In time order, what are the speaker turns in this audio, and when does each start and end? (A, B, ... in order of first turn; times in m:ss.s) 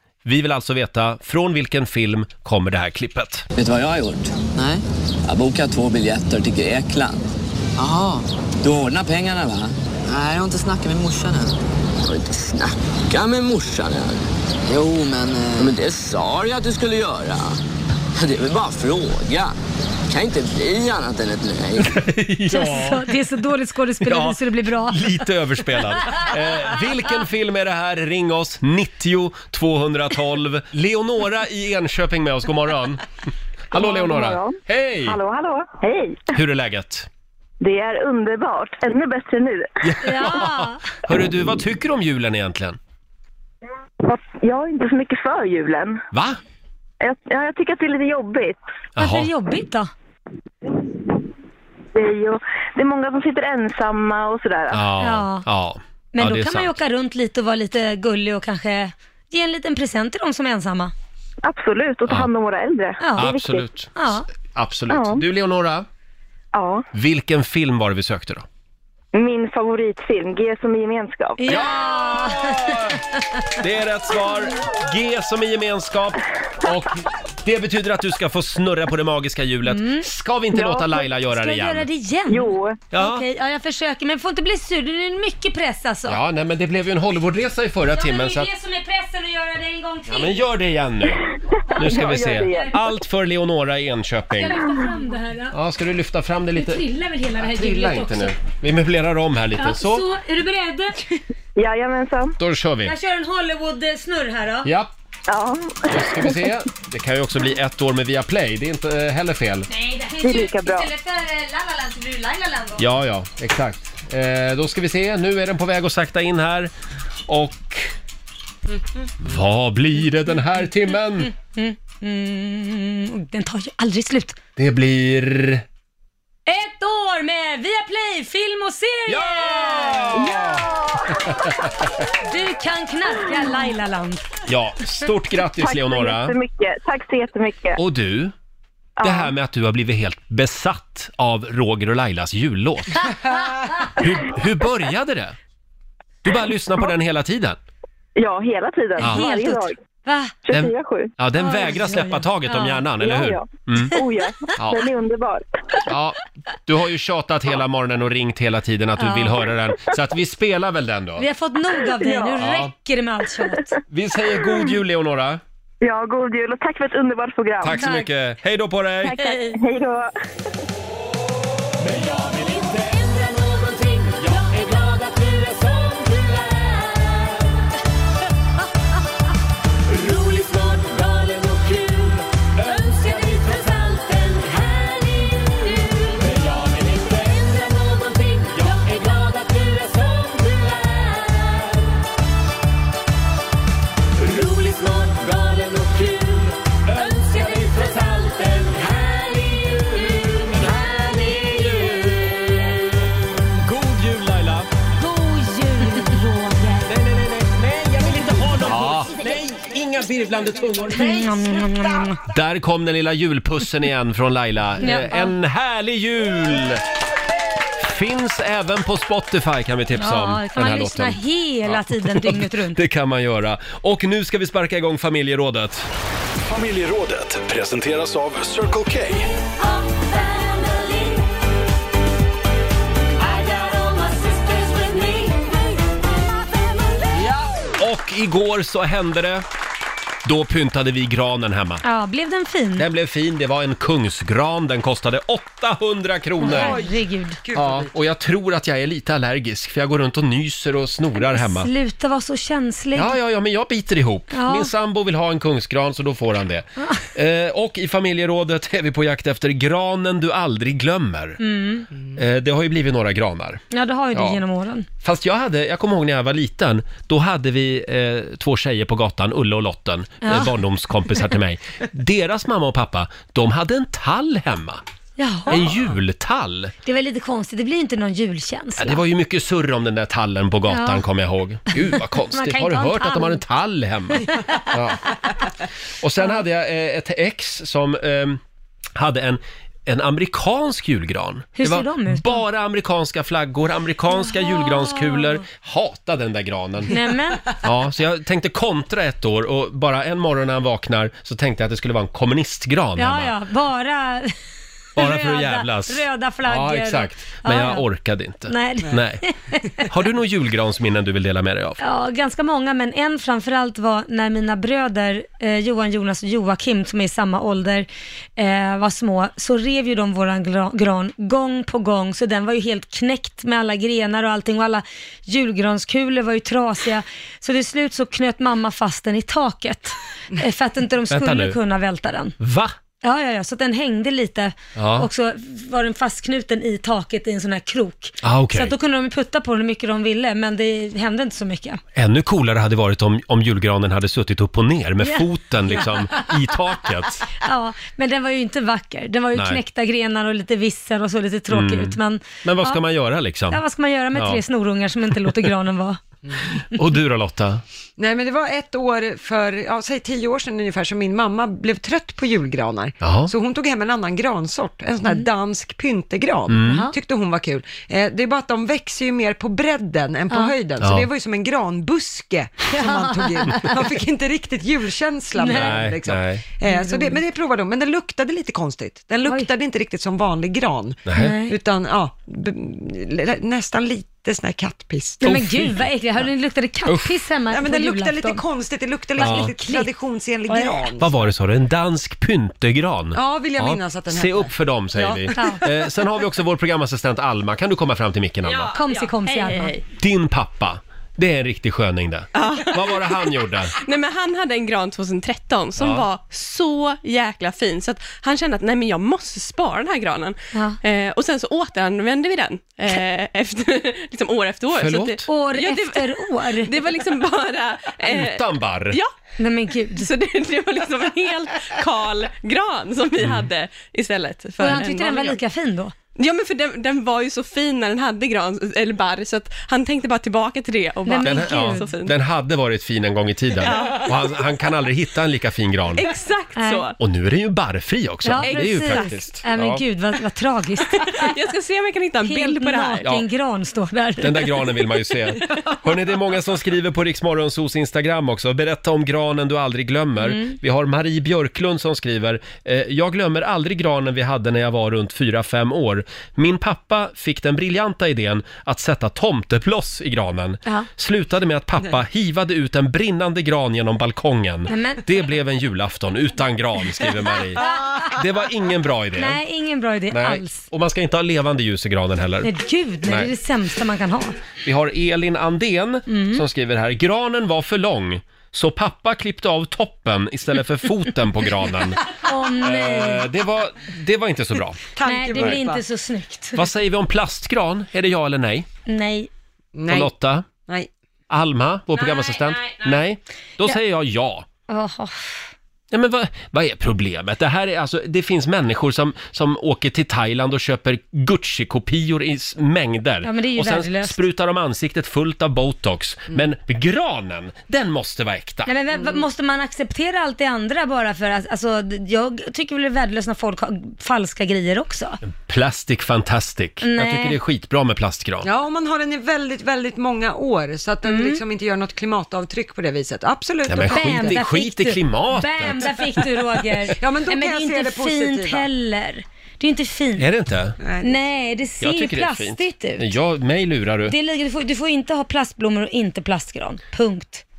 0:00.2-0:03.4 A
0:03.6-0:17.6 B
0:18.2-0:19.5 B
0:20.1-0:21.9 B
0:21.8-0:23.1 A
0:22.5-0:25.2 C
0:24.0-0:33.0 A
0:33.7-0:35.2 A
0:33.7-0:36.2 D
0:36.3-0:37.1 A
0:37.6-0:39.7 D
0:39.8-0:42.8 A
0:40.0-0:40.8 C
0:44.0-0:46.0 D
0:46.1-0:46.4 A
0:47.0-0:48.6 D
0:49.0-0:49.3 A
0:49.0-0:49.9 C
0:51.9-0:54.8 D
0:54.7-0:56.8 A
0:55.0-0:55.4 C
0:56.1-1:00.9 C
1:01.4-1:03.6 D
1:03.0-1:03.4 C
1:03.2-1:05.8 A
1:03.9-1:04.3 C
1:04.9-1:05.2 D
1:06.5-1:06.8 D
1:06.9-1:08.4 A
1:09.1-1:11.6 D
1:11.4-1:13.4 C
1:11.5-1:13.0 A
1:13.6-1:21.9 A
1:19.6-1:20.1 C
1:20.6-1:26.2 C
1:22.3-1:22.8 D
1:22.9-1:23.2 A
1:26.1-1:28.5 A
1:27.9-1:30.4 C
1:30.1-1:31.2 A
1:31.7-1:32.7 C
1:31.8-1:32.7 D
1:31.8-1:34.6 A
1:34.3-1:35.5 C
1:35.5-1:36.8 A
1:36.6-1:38.3 C
1:37.4-1:40.0 A
1:39.6-1:41.0 C
1:41.6-1:42.3 D
1:42.4-1:42.9 A
1:42.8-1:44.7 C
1:44.6-1:44.9 A
1:45.3-1:46.4 D
1:45.9-1:49.7 A
1:49.7-1:52.8 C
1:50.2-1:50.9 D
1:52.8-1:56.7 A
1:57.3-1:57.9 A
1:59.2-2:01.3 A
2:01.3-2:04.4 C
2:04.6-2:05.6 A
2:06.4-2:10.1 C
2:09.1-2:11.9 A
2:10.2-2:11.2 D
2:12.2-2:14.3 C
2:14.5-2:16.4 A
2:15.6-2:17.8 D
2:17.8-2:18.3 A
2:19.0-2:19.3 D
2:19.0-2:23.1 A
2:24.0-2:25.4 A
2:26.2-2:27.6 A
2:28.2-2:29.8 D
2:29.0-2:30.4 C
2:29.0-2:29.2 A
2:30.4-2:31.1 D
2:30.5-2:33.9 A
2:31.3-2:32.8 C
2:33.0-2:35.4 D
2:34.6-2:34.8 A
2:35.9-2:41.3 A
2:39.0-2:39.4 C
2:41.2-2:43.7 C
2:42.0-2:42.4 D
2:42.4-2:42.7 A
2:43.9-2:45.4 A
2:45.8-2:47.8 D
2:47.6-2:49.2 A
2:47.7-2:48.1 C
2:49.1-2:50.1 D
2:49.2-2:49.5 C
2:52.6-2:56.5 A
3:00.0-3:02.2 A
3:02.7-3:05.5 A
3:06.2-3:11.7 A
3:14.2-3:22.8 A
3:23.4-3:24.7 A
3:25.0-3:26.9 C
3:26.9-3:31.3 A
3:30.9-3:32.2 C
3:32.2-3:36.8 A
3:34.8-3:35.3 C
3:37.8-3:45.9 A
3:39.9-3:42.8 C
3:46.5-3:49.3 E
3:57.1-3:59.4 A
4:00.2-4:01.8 A
4:01.8-4:02.9 C
4:02.8-4:06.8 A
4:06.4-4:07.4 C
4:06.4-4:07.9 F
4:07.5-4:11.7 A
4:11.2-4:13.2 C
4:12.9-4:21.4 A
4:14.3-4:14.7 C
4:21.4-4:21.9 C
4:22.1-4:24.4 A
4:23.7-4:24.9 C
4:25.0-4:34.8 A
4:30.2-4:30.5 C
4:35.2-4:35.8 C
4:35.5-4:36.7 A
4:36.8-4:39.0 C
4:38.8-4:45.1 A
4:40.7-4:41.0 C
4:41.7-4:43.4 C
4:44.2-4:44.6 C
4:46.0-4:48.4 A
4:49.0-4:57.0 A
4:51.6-4:52.4 C
4:54.1-4:55.4 C
4:56.9-4:57.4 C
4:57.6-5:03.3 A
5:03.0-5:04.3 C
5:05.0-5:07.8 C
5:05.0-5:09.2 A
5:08.5-5:09.6 C
5:09.8-5:11.8 A
5:11.8-5:32.3 C
5:31.1-5:31.6 A
5:32.4-5:32.7 A
5:33.0-5:41.8 C
5:34.8-5:35.1 A
5:38.2-5:38.8 A
5:42.0-5:47.2 A
5:45.0-5:46.3 C
5:47.3-5:52.8 C
5:49.3-5:49.6 A
5:51.5-5:53.6 A
5:53.5-5:56.0 C
5:54.1-5:54.4 A
5:56.6-5:57.6 A
5:58.0-6:25.4 F
6:03.0-6:03.3 A
6:06.5-6:06.9 A
6:06.6-6:06.9 C
6:10.3-6:10.5 C
6:10.8-6:11.1 A
6:12.7-6:13.8 C
6:15.3-6:15.9 C
6:15.5-6:16.4 A
6:16.6-6:17.2 C
6:19.2-6:19.5 C
6:21.0-6:21.3 A
6:21.1-6:21.6 C
6:25.2-6:28.4 C
6:25.2-6:25.9 A
6:26.8-6:27.2 A
6:27.5-6:31.2 F
6:29.2-6:29.9 C
6:29.2-6:29.5 A
6:30.5-6:30.8 C
6:31.0-6:38.7 A
6:33.1-6:35.6 F
6:35.3-6:35.6 C
6:38.5-6:39.7 G
6:38.7-6:39.7 C
6:40.0-6:43.7 A
6:42.3-6:59.1 G
6:45.8-6:46.0 A
6:50.5-6:50.8 C
6:54.7-6:55.3 A
6:55.2-6:56.7 C
6:58.1-6:59.0 A
6:59.4-7:00.1 C
6:59.9-7:05.4 G
7:04.6-7:05.9 C
7:06.2-7:12.1 G
7:11.0-7:11.9 C
7:11.2-7:16.0 A
7:13.6-7:14.4 G
7:16.0-7:16.9 G
7:16.6-7:16.9 C
7:17.0-7:19.8 A
7:18.2-7:21.3 C
7:18.4-7:19.1 G
7:20.9-7:23.1 G
7:22.2-7:24.8 C
7:24.2-7:49.4 A
7:30.2-7:30.6 C
7:44.7-7:45.0 C
7:49.1-7:50.7 C
7:50.1-7:52.5 A
7:52.4-7:54.4 C
7:53.0-7:53.3 A
7:54.6-8:04.8 A
7:56.1-7:56.4 C
8:02.1-8:03.3 C
8:05.0-8:05.8 F
8:05.0-8:06.6 C
8:06.5-8:08.7 A
8:08.9-8:09.3 C
8:09.7-8:10.1 F
8:09.9-8:10.5 A
8:11.3-8:14.4 A
8:14.7-8:15.4 C
8:15.9-8:28.7 A
8:23.2-8:24.2 C
8:28.6-8:35.2 C
8:28.9-8:29.2 F
8:35.2-8:38.5 A
8:36.8-8:37.4 C
8:38.4-8:44.4 F
8:41.0-8:41.4 C
8:43.7-8:46.0 A
8:43.8-8:50.3 C
8:47.0-8:48.7 F
8:50.2-8:50.8 A
8:50.8-8:51.3 F
8:51.0-8:53.1 C
8:51.8-8:54.2 A
8:54.1-8:57.4 C